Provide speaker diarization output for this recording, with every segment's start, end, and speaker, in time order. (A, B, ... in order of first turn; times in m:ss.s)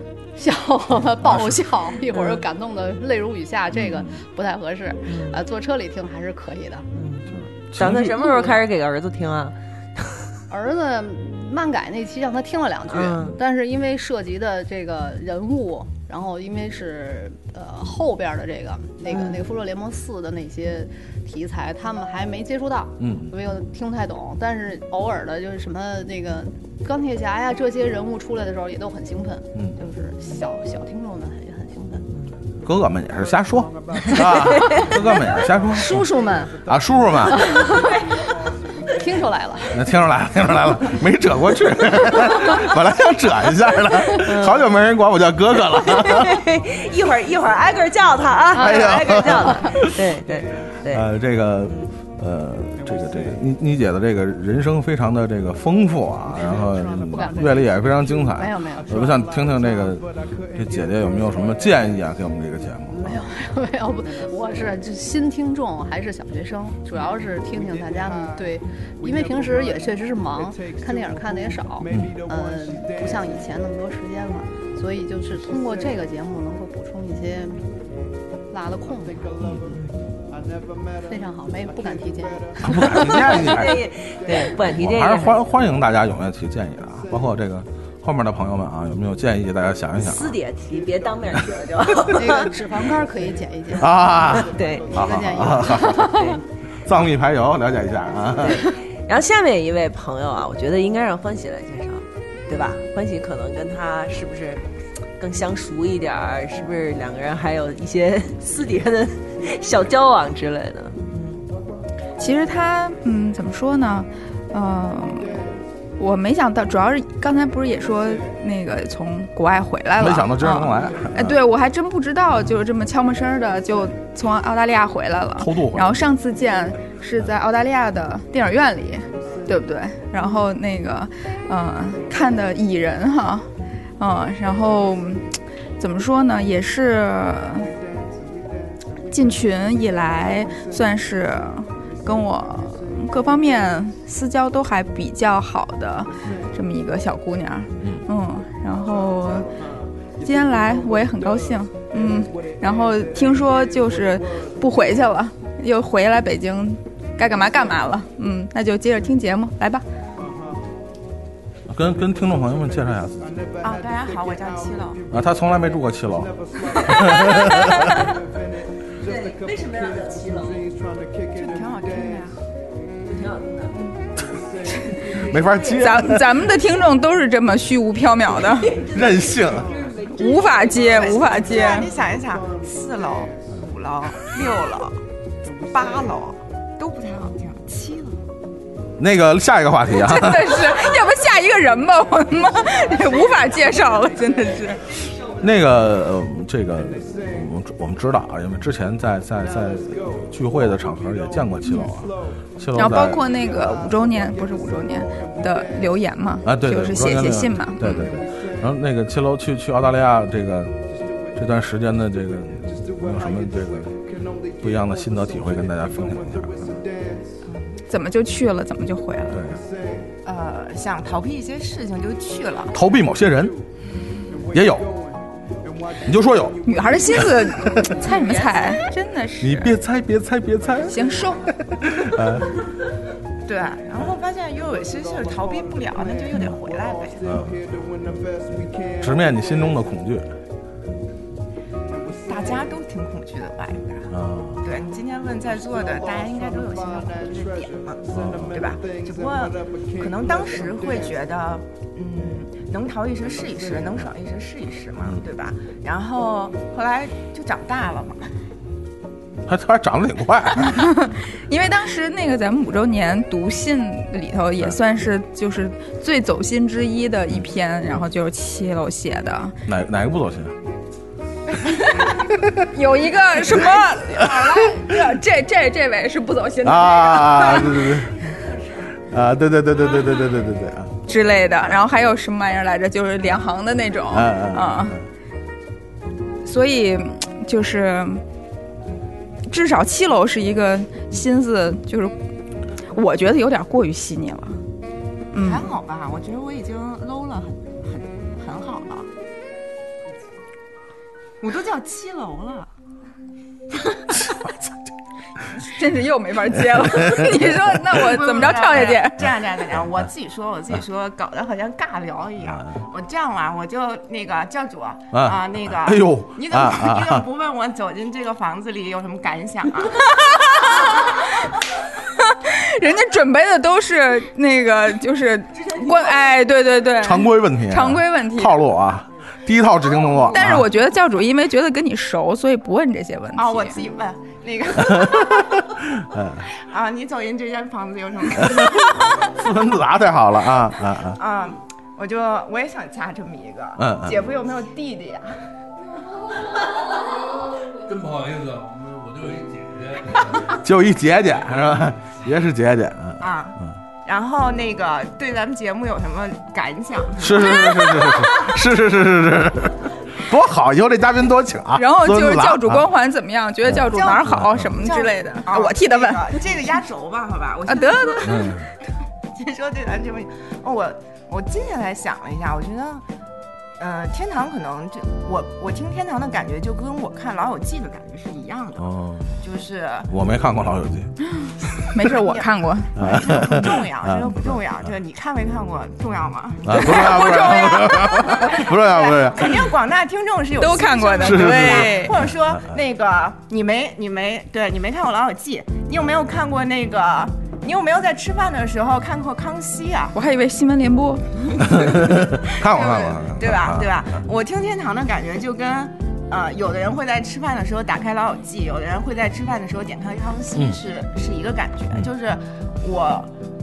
0:00.4-0:06.9 A
0:01.2-0:01.7 B
0:03.7-0:04.2 B
0:05.1-0:05.4 C
0:06.9-0:10.1 C
0:07.3-0:08.2 B
0:08.2-0:08.6 A
0:10.5-0:32.1 A
0:12.9-0:13.4 C
0:19.1-0:19.4 C
0:23.0-0:23.3 B
0:32.6-0:36.1 B
0:35.7-0:36.6 A
0:36.7-0:37.6 B
0:37.3-0:37.9 A
0:38.9-0:39.8 A
0:39.7-0:46.4 B
0:44.2-0:44.6 C
0:45.8-0:51.1 C
0:48.5-0:49.8 A
0:48.6-0:49.9 B
0:50.9-1:03.2 B
0:51.6-0:51.9 C
0:57.1-0:57.6 A
0:58.1-0:59.2 A
1:02.9-1:17.7 A
1:11.9-1:12.2 B
1:18.5-1:19.5 A
1:19.4-1:19.8 B
1:21.0-1:23.6 A
1:22.6-1:23.9 B
1:23.3-1:25.4 C
1:24.6-1:30.4 B
1:30.0-1:32.5 C
1:32.1-1:36.4 A
1:33.8-1:38.7 B
1:34.4-1:35.0 C
1:38.4-1:44.6 C
1:45.2-1:51.4 C
1:52.2-1:55.4 D
1:56.0-2:13.5 D
2:00.0-2:01.4 B
2:05.4-2:05.9 B
2:14.0-2:17.7 D
2:19.1-2:29.5 D
2:27.8-2:28.0 B
2:30.2-2:39.8 D
2:41.7-2:43.2 B
2:43.6-2:45.0 E
2:45.1-2:47.9 B
2:49.0-2:50.7 C
2:51.3-2:52.4 E
2:53.0-2:53.8 C
2:55.3-2:56.2 B
2:55.8-2:58.7 D
2:58.6-3:01.2 C
2:58.9-2:59.7 B
3:00.2-3:01.9 D
3:00.9-3:05.0 E
3:05.6-3:08.2 E
3:09.0-3:10.6 B
3:09.9-3:14.8 D
3:15.4-3:23.2 B
3:22.8-3:28.2 D
3:26.4-3:30.8 B
3:31.4-3:34.0 B
3:34.6-3:36.8 B
3:37.9-3:39.5 D
3:39.3-3:39.6 B
3:40.2-3:42.7 E
3:42.7-3:43.6 B
3:44.5-3:44.9 B
3:46.0-3:46.6 B
3:46.6-3:49.7 D
3:47.5-3:48.0 B
3:48.2-3:48.8 E
3:49.4-3:51.0 B
3:50.9-3:51.4 D
3:51.7-3:52.4 B
3:53.5-3:57.2 E
3:57.2-3:57.6 B
3:59.0-4:00.3 B
4:02.2-4:04.1 E
4:04.1-4:04.6 B
4:04.6-4:18.3 E
4:08.1-4:08.6 B
4:19.5-4:20.8 B
4:20.6-4:29.6 D
4:29.7-4:30.6 B
4:32.7-4:37.9 D
4:34.2-4:34.6 B
4:36.6-4:38.2 B
4:39.1-4:41.0 B
4:41.1-4:45.0 D
4:44.1-4:45.0 B
4:46.4-4:48.2 D
4:49.5-4:52.2 D
4:52.9-4:54.6 D
4:55.3-4:55.7 D
4:55.4-4:59.1 E
5:01.4-5:02.7 E
5:05.6-5:09.3 D
5:06.7-5:07.7 B
5:08.0-5:20.0 E
5:08.8-5:09.9 B
5:12.4-5:12.8 B
5:15.1-5:17.2 B
5:20.6-5:21.1 D
5:22.5-5:28.6 D
5:27.0-5:30.7 B
5:30.2-5:33.8 D
5:33.4-5:35.6 E
5:34.9-5:36.5 B
5:36.5-5:39.1 E
5:38.4-5:41.2 B
5:41.1-5:45.4 E
5:43.8-5:44.2 B
5:47.8-5:50.2 F
5:50.5-5:53.8 B
5:53.2-5:58.3 E
5:57.2-6:02.8 B
6:01.7-6:06.4 D
6:03.7-6:04.8 B
6:03.9-6:08.7 E
6:07.7-6:08.5 D
6:08.2-6:08.7 B
6:09.3-6:13.0 E
6:13.8-6:20.1 E
6:18.8-6:19.4 B
6:20.1-6:21.1 B
6:21.9-6:22.9 D
6:22.2-6:40.1 E
6:23.0-6:24.9 B
6:26.6-6:29.7 B
6:30.6-6:32.2 D
6:31.2-6:32.6 B
6:40.1-6:41.8 D
6:41.7-6:44.0 B
6:42.5-6:53.3 E